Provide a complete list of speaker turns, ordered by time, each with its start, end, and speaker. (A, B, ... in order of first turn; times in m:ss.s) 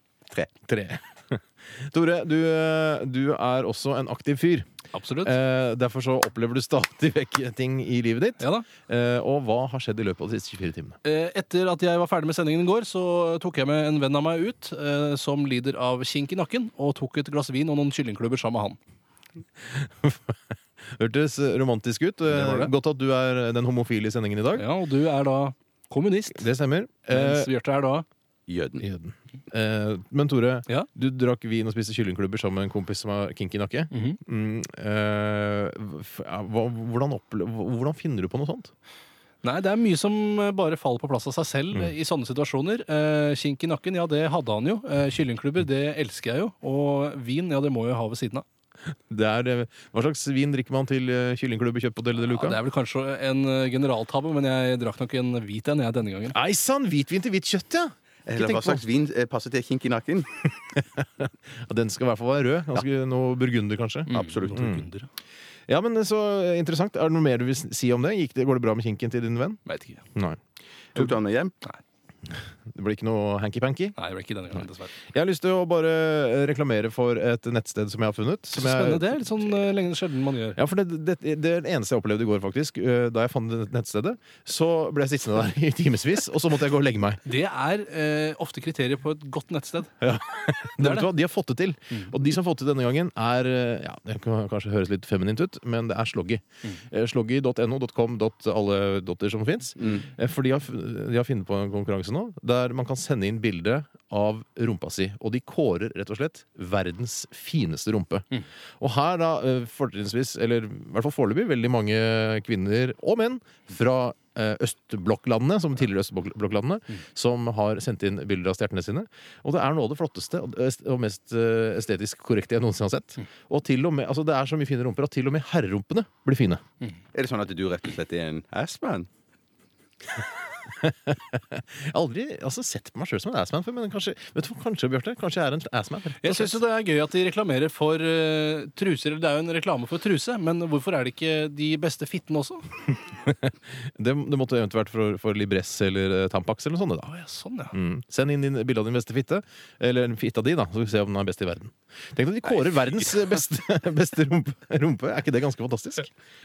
0:00.6-0:04.7 A
0:04.9-0:05.4 B
0:05.2-0:11.0 A
0:08.4-0:08.7 B
0:11.0-0:18.8 B
0:19.7-0:20.3 A
0:20.9-0:24.7 A
0:22.3-0:22.7 B
0:24.6-0:26.5 B
0:26.3-0:27.5 A
0:27.1-0:28.0 B
0:28.5-0:28.8 C
0:28.8-0:38.7 A
0:33.9-0:34.2 B
0:39.4-0:48.4 B
0:49.1-0:52.6 A
0:52.2-0:56.4 B
0:56.3-0:58.8 A
0:58.3-1:00.3 C
1:00.8-1:04.9 A
1:04.1-1:05.1 B
1:04.1-1:04.7 C
1:05.7-1:09.6 A
1:09.7-1:10.0 B
1:10.1-1:10.4 A
1:11.0-1:11.5 C
1:12.4-1:14.0 A
1:14.0-1:14.9 B
1:15.1-1:19.2 A
1:18.5-1:20.6 B
1:20.6-1:27.2 A
1:27.2-1:30.0 B
1:30.0-2:06.6 A
1:30.8-1:31.1 B
2:07.1-2:09.1 C
2:10.8-2:16.6 A
2:16.2-2:22.7 B
2:23.3-2:27.1 A
2:27.1-2:27.7 B
2:27.7-2:36.1 A